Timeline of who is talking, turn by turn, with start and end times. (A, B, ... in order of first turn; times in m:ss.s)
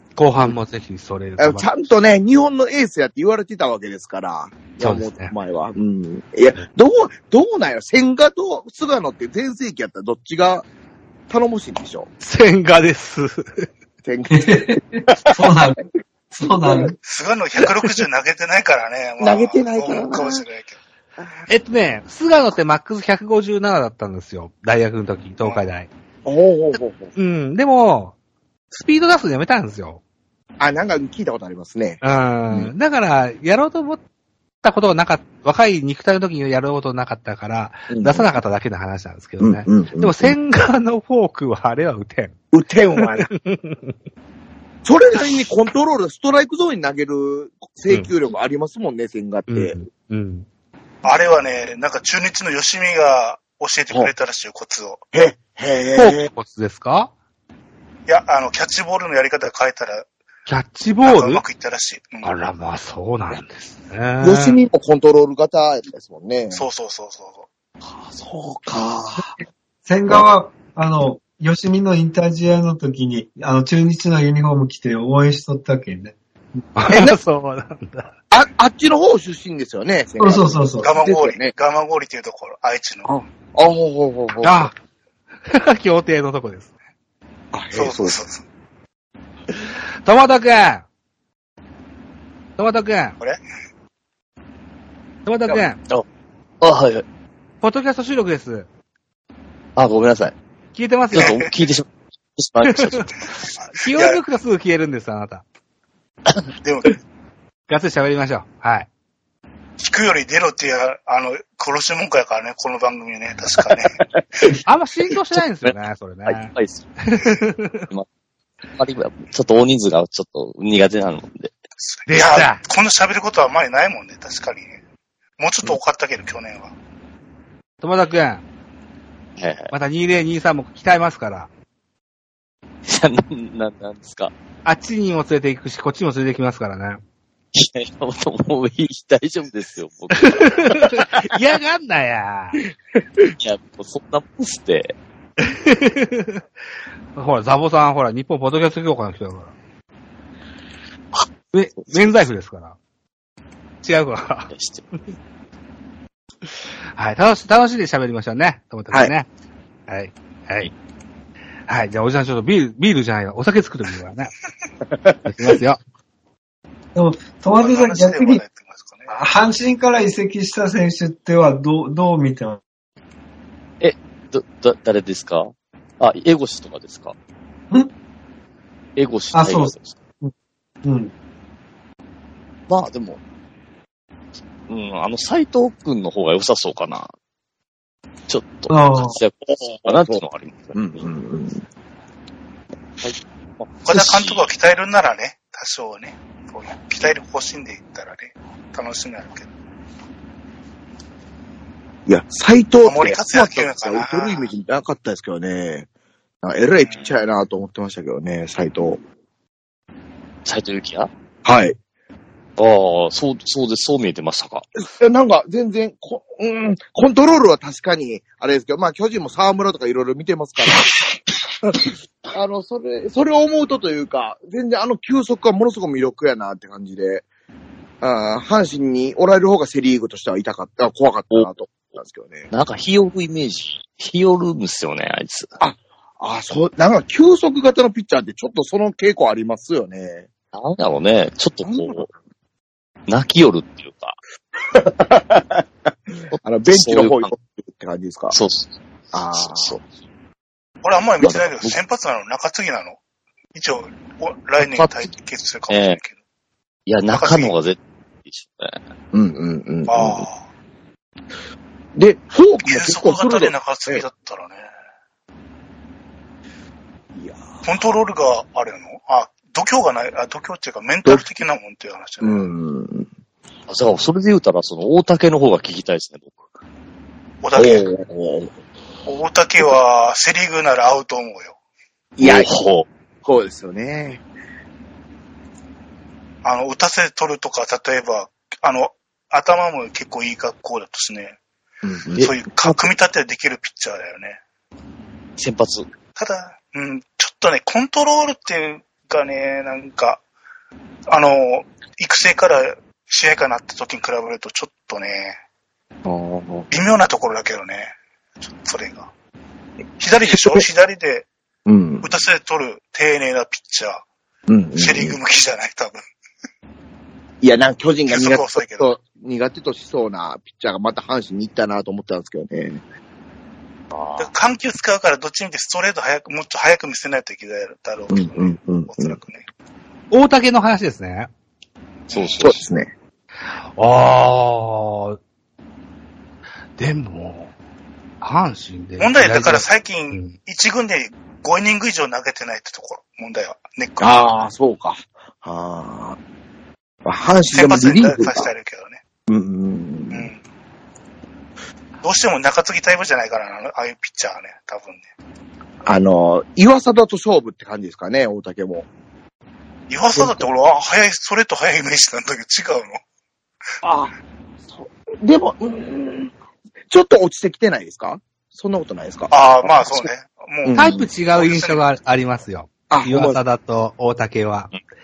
0:00.2-0:02.0 A
0:01.4-0:10.6 B
0:04.8-0:05.3 A
0:11.3-0:12.1 B
0:12.2-0:13.7 A
0:14.0-0:15.5 B
0:14.3-0:15.8 C
0:16.4-0:17.0 C
0:16.6-0:16.9 B
0:17.0-0:20.8 D
0:19.2-0:20.4 B
0:21.5-0:25.9 A
0:26.2-0:27.1 B
0:27.2-0:28.1 A
0:28.7-0:30.0 A
0:30.6-0:32.7 B
0:32.0-0:34.0 A
0:34.6-0:42.3 A
0:37.9-0:38.3 B
0:39.4-0:40.4 B
0:42.5-0:43.3 B
0:43.0-0:43.9 A
0:44.8-0:49.8 B
0:49.5-0:50.4 A
0:51.0-0:55.0 D
0:55.1-0:56.3 B
0:56.0-0:57.1 A
0:58.1-1:00.1 D
1:00.5-1:01.4 A
1:01.0-1:02.3 D
1:02.2-1:04.6 A
1:04.2-1:06.6 B
1:06.5-1:07.5 D
1:08.2-1:09.3 B
1:09.9-1:16.1 C
1:16.8-1:18.1 A
1:16.9-1:17.2 B
1:18.3-1:21.5 B
1:20.2-1:20.9 C
1:20.8-1:23.1 D
1:23.0-1:24.7 B
1:24.4-1:24.7 A
1:25.5-1:26.7 A
1:27.5-1:28.2 B
1:27.7-1:28.4 D
1:30.0-1:30.8 A
1:32.6-1:33.2 A
1:35.2-1:35.8 A
1:36.6-1:37.0 E
1:37.6-1:38.6 A
1:39.8-1:40.3 E
1:40.8-1:41.3 A
1:41.1-1:43.1 E
1:41.1-1:41.5 D
1:42.7-1:43.1 A
1:43.6-1:45.4 A
1:43.9-1:44.2 D
1:46.6-1:47.0 D
1:47.7-1:48.9 A
1:49.8-1:54.0 D
1:53.7-1:54.5 B
1:54.6-1:57.9 A
1:55.6-1:56.9 E
1:58.8-2:01.5 E
2:01.9-2:04.8 D
2:02.1-2:02.6 A
2:05.4-2:06.7 D
2:07.8-2:08.4 A
2:09.4-2:09.7 E
2:09.7-2:11.5 A
2:12.9-2:14.3 E
2:14.6-2:17.0 A
2:17.5-2:21.0 E
2:20.1-2:22.6 A
2:23.4-2:24.9 E
2:25.4-2:26.4 A
2:27.1-2:29.5 A
2:31.5-2:32.8 A
2:31.8-2:32.1 E
2:33.8-2:34.5 A
2:34.5-2:34.9 E
2:37.0-2:39.2 A
2:39.9-2:40.7 A
2:41.7-2:44.3 A
2:45.2-2:45.8 A
2:47.0-2:48.4 C
2:47.5-2:49.1 D
2:49.1-2:52.6 C
2:53.8-2:57.1 E
2:59.0-3:00.0 E
2:59.3-3:00.3 C
3:00.8-3:01.1 C
3:02.7-3:03.2 E
3:04.7-3:07.1 E
3:08.3-3:11.0 E
3:08.7-3:09.2 C
3:09.9-3:10.2 B
3:10.7-3:11.6 B
3:13.0-3:14.5 E
3:13.8-3:19.5 D
3:22.1-3:25.9 B
3:22.8-3:24.5 D
3:26.4-3:29.0 B
3:26.8-3:27.1 D
3:30.4-3:31.1 E
3:31.4-3:31.8 B
3:32.6-3:34.6 E
3:34.8-3:40.9 B
3:41.6-3:47.2 B
3:48.0-3:52.5 B
3:52.5-3:55.5 E
3:55.6-4:00.3 B
4:00.5-4:02.1 E
4:01.6-4:02.1 B
4:03.1-4:04.2 E
4:04.7-4:05.6 B
4:06.3-4:07.3 E
4:06.4-4:08.4 B
4:08.3-4:08.8 E
4:09.1-4:09.8 B
4:09.3-4:09.9 E
4:10.8-4:13.0 D
4:11.2-4:11.8 E
4:13.5-4:16.2 D
4:14.6-4:15.1 E
4:15.7-4:16.0 E
4:16.9-4:18.8 E
4:17.1-4:17.5 D
4:19.1-4:20.3 B
4:19.9-4:20.4 D
4:22.0-4:24.0 B
4:22.6-4:24.7 D
4:27.2-4:27.7 B
4:27.6-4:32.5 D
4:32.2-4:33.1 B
4:33.7-4:36.4 E
4:37.4-4:37.9 D
4:37.6-4:38.5 B
4:39.0-4:41.5 D
4:42.2-4:42.5 B
4:42.2-4:42.8 E
4:43.2-4:44.2 B
4:46.4-4:51.4 D
4:51.8-4:52.3 B
4:52.2-4:52.8 E
4:52.2-4:54.4 D
4:55.4-4:55.9 E
4:56.2-5:00.2 D
5:01.1-5:05.4 D
5:06.0-5:06.7 B
5:06.7-5:09.1 D
5:10.0-5:11.3 D
5:10.3-5:10.6 B
5:11.7-5:12.0 B
5:12.0-5:14.0 D
5:14.5-5:15.2 B
5:14.8-5:16.0 D
5:17.4-5:22.8 B
5:18.1-5:19.0 D
5:23.9-5:24.3 E
5:24.2-5:29.4 D
5:28.1-5:29.2 B
5:30.1-5:31.3 A
5:32.1-5:32.4 D
5:32.1-5:32.6 E
5:32.4-5:32.9 B
5:33.8-5:35.2 A
5:36.8-5:37.5 A
5:38.2-5:40.4 A
5:39.0-5:44.4 D
5:44.0-5:46.2 B
5:47.0-5:48.5 B
5:47.5-5:49.0 D
5:49.3-5:50.3 B
5:50.1-5:50.4 D
5:52.0-5:55.0 D
5:55.8-5:58.8 B
5:59.9-6:03.0 D
6:00.2-6:00.5 B
6:03.8-6:04.1 B
6:04.7-6:06.3 B
6:06.9-6:10.1 B
6:09.3-6:11.9 D
6:10.6-6:11.1 B
6:10.8-6:14.7 A
6:12.9-6:13.4 B